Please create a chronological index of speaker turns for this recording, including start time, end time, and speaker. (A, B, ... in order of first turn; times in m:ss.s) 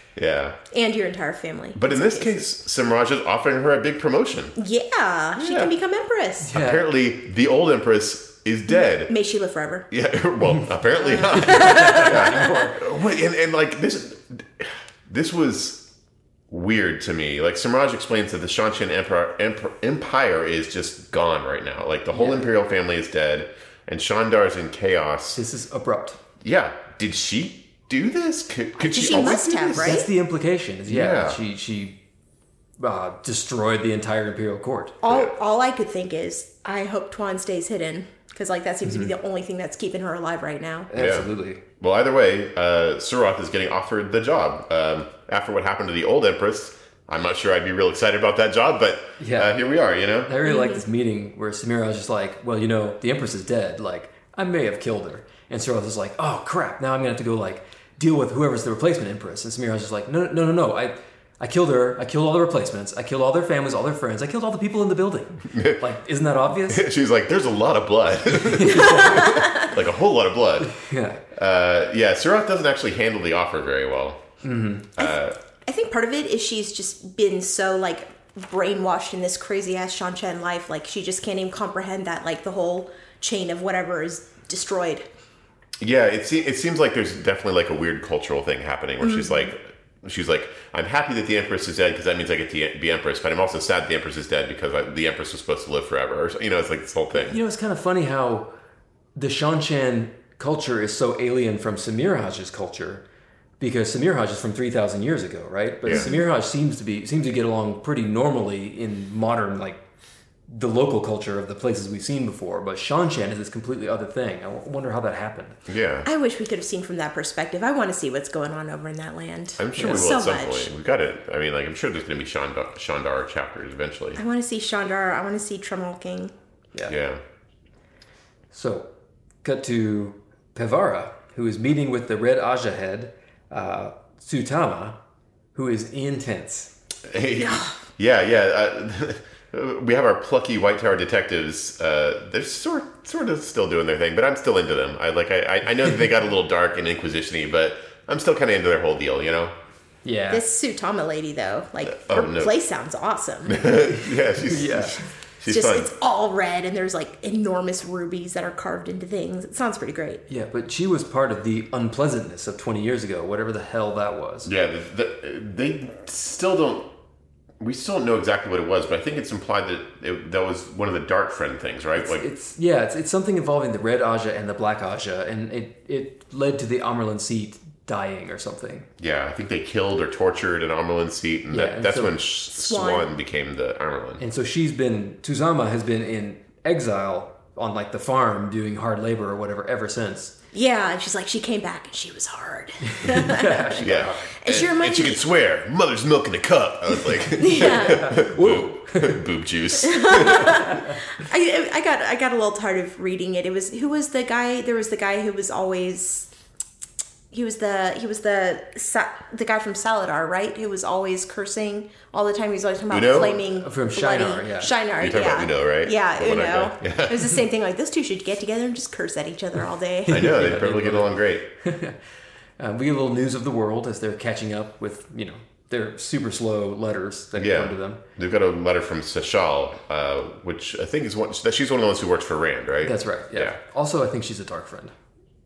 0:00.2-0:00.6 A
0:00.7-0:02.4 B
0:01.8-0:04.6 A
0:04.6-0:06.5 B
0:05.4-0:05.7 A
0:06.4-0:06.9 C
0:06.5-0:09.1 A
0:08.8-0:09.9 B
0:09.9-0:15.9 A
0:11.0-0:12.6 B
0:11.2-0:12.8 C
0:16.5-0:25.4 A
0:22.1-0:22.5 C
0:25.4-0:26.2 C
0:26.4-0:30.0 A
0:28.8-0:30.1 B
0:29.7-0:32.0 C
0:30.9-0:31.4 A
0:32.8-0:35.0 C
0:35.0-0:40.9 B
0:38.8-0:39.1 C
0:40.9-0:41.6 C
0:41.0-0:41.3 A
0:41.8-0:50.3 A
0:49.2-0:49.6 C
0:50.2-1:06.9 C
0:50.4-0:50.8 B
1:05.5-1:05.8 A
1:06.7-1:10.7 A
1:08.3-1:09.4 C
1:08.7-1:09.7 B
1:10.7-1:11.2 C
1:11.3-1:14.2 A
1:14.4-1:14.9 C
1:15.0-1:15.4 A
1:15.0-1:25.1 B
1:25.8-1:37.4 A
1:29.0-1:29.5 B
1:37.2-1:38.5 C
1:39.2-1:43.0 C
1:43.6-1:49.8 C
1:45.8-1:46.1 A
1:45.9-1:46.2 B
1:50.5-1:55.6 C
1:55.7-1:56.1 A
1:56.1-2:00.7 B
1:59.6-2:04.2 A
2:04.2-2:06.3 B
2:06.9-2:07.2 A
2:08.5-2:08.9 C
2:09.4-2:15.0 C
2:15.6-2:16.7 C
2:17.1-2:29.5 A
2:17.4-2:17.7 B
2:30.0-2:30.4 C
2:30.3-2:33.7 B
2:31.9-2:32.5 A
2:33.5-2:35.9 A
2:33.7-2:35.0 C
2:35.5-2:40.2 B
2:40.3-2:44.5 C
2:44.4-2:46.9 A
2:47.6-2:52.3 A
2:52.0-2:58.9 C
2:59.0-3:04.2 A
3:01.5-3:02.2 C
3:02.6-3:03.1 B
3:04.2-3:10.4 C
3:10.5-3:15.2 B
3:12.9-3:14.4 C
3:13.8-3:20.6 A
3:17.4-3:18.2 B
3:17.6-3:19.2 C
3:19.8-3:26.3 B
3:27.3-3:40.3 B
3:32.9-3:33.4 A
3:33.4-3:34.7 C
3:35.0-3:37.4 A
3:40.1-3:42.0 C
3:40.1-3:41.5 A
3:42.6-3:48.0 C
3:47.4-3:53.6 A
3:52.8-3:54.9 C